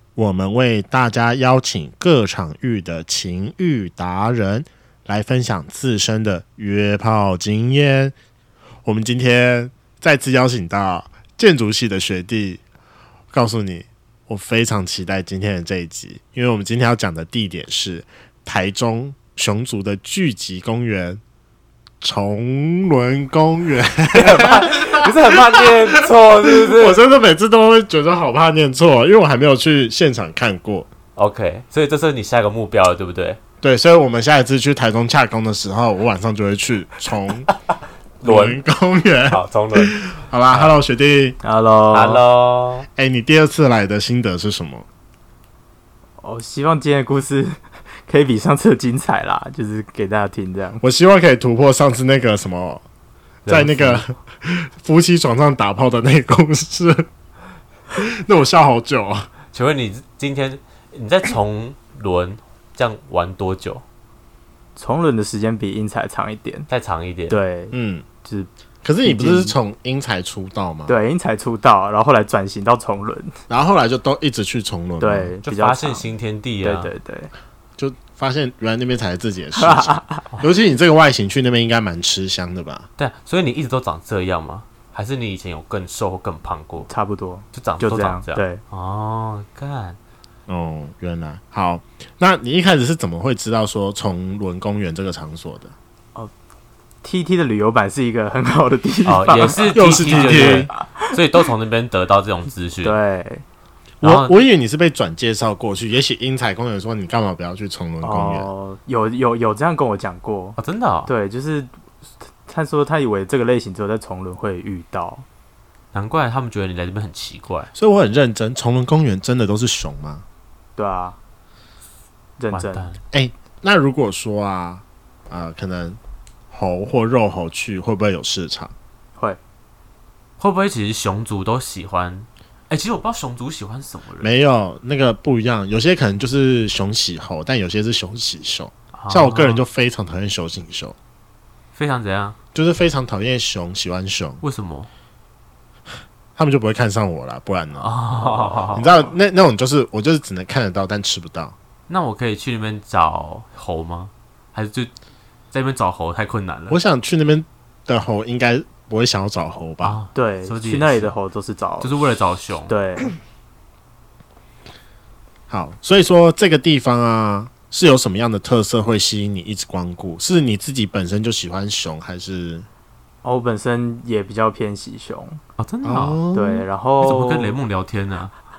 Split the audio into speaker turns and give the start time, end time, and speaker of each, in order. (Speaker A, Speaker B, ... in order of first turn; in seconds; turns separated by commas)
Speaker A: 0.1-8.1, Speaker A: 8.8-12.6, Speaker A: 13.3-21.2, Speaker A: 22.0-30.9, Speaker B: 24.1-27.0, Speaker B: 31.1-33.4, Speaker A: 33.6-37.5, Speaker B: 38.2-38.6, Speaker A: 38.2-41.4, Speaker B: 39.3-39.9, Speaker B: 40.5-40.8, Speaker C: 41.4-42.2, Speaker B: 41.9-42.9, Speaker A: 43.0-44.9, Speaker C: 46.2-50.8, Speaker A: 50.8-52.8, Speaker B: 53.4-54.0, Speaker A: 53.5-57.1, Speaker A: 57.9-59.3, Speaker B: 59.5-63.8, Speaker C: 64.8-66.7, Speaker B: 66.7-67.4, Speaker C: 67.3-68.5, Speaker A: 67.7-68.0, Speaker A: 68.8-70.9, Speaker C: 69.0-69.5, Speaker C: 70.9-73.3, Speaker A: 73.5-75.3, Speaker C: 75.0-76.1, Speaker B: 75.4-76.9, Speaker C: 76.6-77.3, Speaker A: 77.8-82.8, Speaker C: 79.5-80.3, Speaker B: 83.0-86.9, Speaker C: 86.9-88.6, Speaker B: 87.5-90.0, Speaker A: 90.5-95.7, Speaker C: 97.0-101.1, Speaker B: 99.0-103.0, Speaker A: 99.7-100.7, Speaker C: 102.8-103.4, Speaker B: 104.0-104.4, Speaker A: 104.0-108.5, Speaker C: 108.0-111.7, Speaker B: 110.6-111.1, Speaker C: 112.5-115.2, Speaker B: 115.9-117.7, Speaker A: 117.7-120.2, Speaker C: 120.8-121.2, Speaker C: 122.4-122.9, Speaker B: 122.5-123.0, Speaker A: 123.1-126.0, Speaker A: 126.5-128.7, Speaker B: 130.4-134.3, Speaker A: 134.2-140.9, Speaker B: 138.9-139.6, Speaker B: 141.7-142.3, Speaker A: 142.5-144.4, Speaker B: 144.4-144.9, Speaker A: 146.3-147.9, Speaker B: 147.8-148.9, Speaker C: 148.1-149.1, Speaker A: 148.7-151.5, Speaker B: 151.9-154.9, Speaker B: 155.5-156.8, Speaker A: 156.7-160.0, Speaker B: 159.8-161.1, Speaker C: 160.1-161.9, Speaker B: 161.8-162.7, Speaker C: 162.7-163.1, Speaker A: 165.5-172.7, Speaker C: 173.2-175.4, Speaker B: 175.6-176.2, Speaker A: 175.8-176.6, Speaker C: 176.3-177.6, Speaker B: 177.0-178.3